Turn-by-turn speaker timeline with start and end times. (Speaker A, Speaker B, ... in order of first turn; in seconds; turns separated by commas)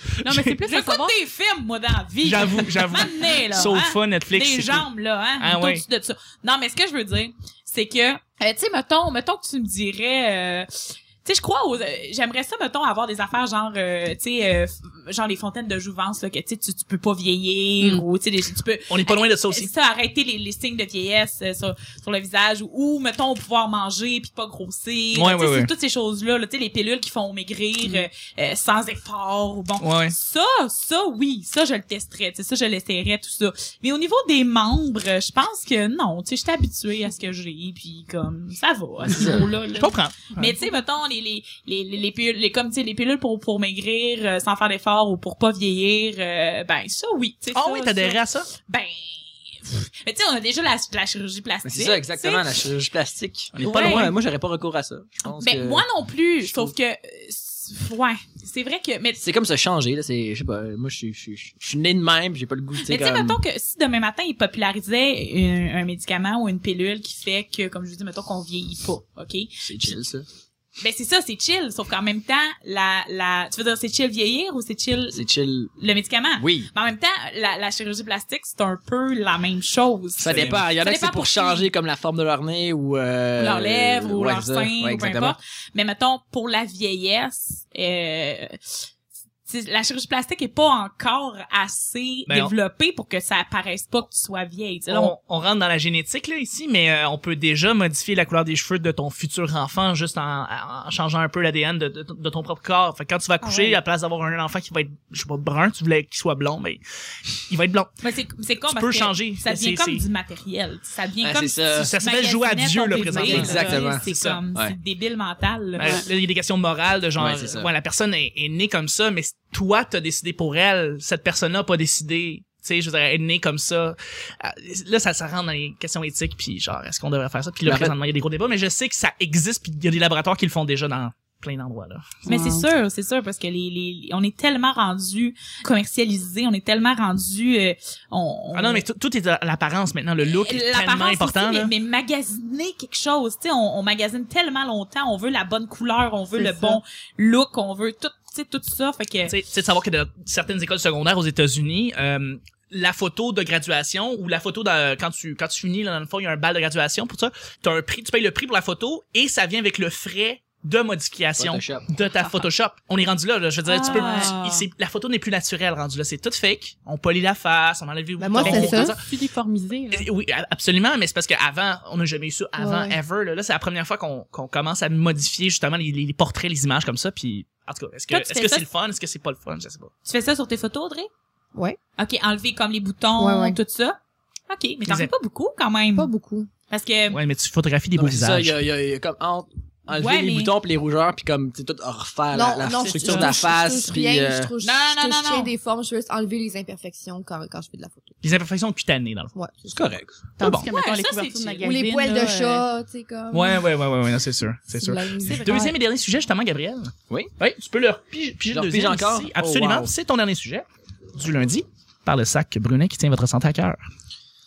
Speaker A: 0.2-1.1, Speaker B: 0.2-0.6, Speaker C: 0.6-52.5, Speaker B: 2.2-4.9, Speaker B: 5.4-5.8, Speaker B: 18.9-19.7, Speaker B: 25.1-25.7, Speaker B: 29.8-30.1, Speaker D: 39.1-39.4, Speaker B: 39.8-40.6, Speaker B: 47.5-48.5, Speaker D: 51.6-55.8, Speaker B: 53.5-54.1, Speaker C: 53.6-54.1, Speaker C: 55.3-59.2, Speaker D: 56.4-56.7, Speaker D: 59.2-63.4, Speaker C: 62.9-69.9, Speaker D: 69.6-70.2, Speaker C: 70.8-75.2, Speaker D: 75.1-75.7, Speaker C: 75.8-81.7, Speaker D: 76.4-76.7, Speaker D: 80.2-85.3, Speaker B: 80.2-80.6, Speaker C: 83.4-88.8, Speaker C: 89.5-95.1, Speaker B: 92.3-92.5, Speaker B: 94.9-106.8, Speaker C: 103.4-103.8, Speaker B: 107.3-107.9, Speaker C: 108.0-116.0, Speaker B: 108.7-110.0, Speaker D: 111.2-111.9, Speaker B: 111.7-114.4, Speaker D: 113.2-114.8, Speaker A: 113.3-113.7, Speaker B: 115.8-132.2, Speaker A: 115.8-116.0, Speaker D: 117.2-117.7, Speaker D: 127.6-127.9, Speaker A: 132.2-132.7, Speaker C: 132.3-138.8, Speaker B: 138.5-141.7, Speaker C: 140.2-149.3, Speaker E: 146.3-146.8, Speaker B: 149.3-169.1, Speaker D: 161.4-161.8, Speaker C: 163.7-164.7, Speaker A: 163.7-164.4, Speaker E: 168.2-168.9, Speaker A: 168.3-170.1, Speaker B: 169.9-179.9, Speaker E: 172.6-173.0, Speaker C: 178.1-178.7, Speaker C: 180.1-181.1, Speaker C: 182.0-184.0, Speaker E: 183.2-183.6, Speaker C: 184.5-186.1, Speaker E: 185.9-186.5, Speaker C: 186.7-187.2, Speaker B: 187.1-188.5, Speaker D: 188.0-194.5, Speaker C: 189.9-190.5, Speaker E: 192.3-198.1, Speaker B: 192.8-193.4, Speaker C: 194.6-195.5, Speaker B: 198.2-199.3, Speaker E: 199.3-200.6, Speaker D: 199.7-200.2, Speaker B: 200.4-200.7, Speaker A: 200.4-202.7, Speaker C: 200.7-201.7, Speaker E: 201.6-203.6, Speaker B: 203.3-213.8, Speaker E: 204.7-205.7, Speaker C: 205.2-205.8, Speaker D: 208.5-209.9